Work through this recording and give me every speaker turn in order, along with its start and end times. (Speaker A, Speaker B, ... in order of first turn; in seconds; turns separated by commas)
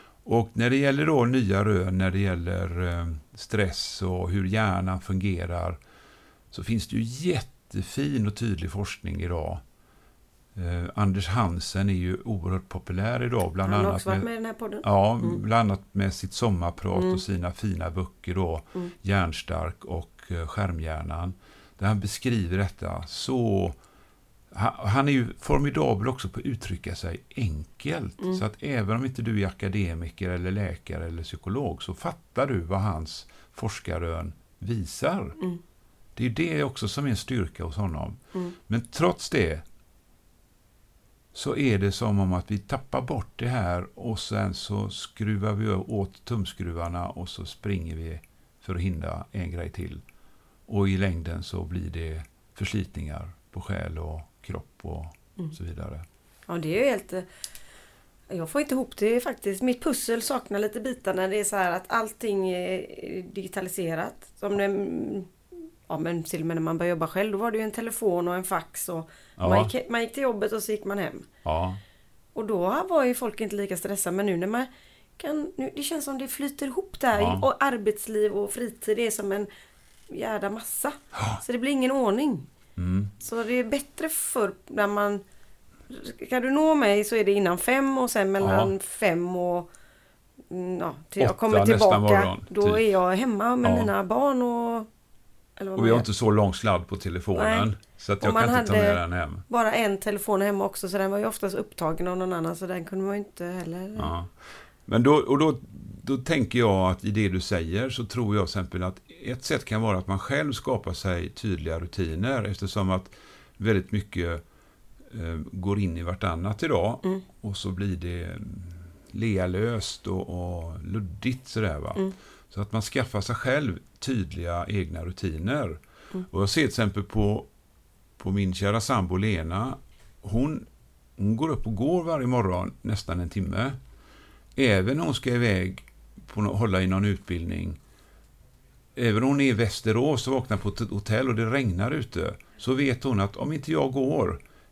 Speaker A: 0.2-5.8, Speaker A: 6.5-9.6, Speaker A: 10.6-14.3, Speaker B: 13.6-15.4, Speaker A: 14.8-23.8, Speaker B: 16.9-17.2, Speaker A: 24.5-35.4, Speaker A: 36.2-39.6, Speaker A: 41.3-50.0, Speaker A: 50.7-56.1, Speaker B: 56.5-57.3, Speaker B: 58.3-65.3, Speaker B: 65.9-71.3, Speaker A: 69.4-69.7, Speaker A: 71.4-71.8, Speaker B: 72.3-79.5, Speaker A: 77.1-77.5, Speaker B: 80.1-82.5, Speaker A: 82.8-83.1, Speaker B: 83.2-85.2, Speaker B: 85.9-89.7, Speaker A: 88.4-88.7, Speaker B: 90.5-94.9, Speaker A: 91.2-92.8, Speaker A: 93.6-93.9, Speaker B: 95.6-96.1, Speaker A: 95.8-99.5, Speaker B: 97.3-97.7, Speaker B: 98.2-104.1, Speaker A: 104.0-114.4, Speaker A: 115.1-127.5, Speaker A: 128.2-133.8, Speaker A: 134.6-137.8, Speaker A: 138.9-144.4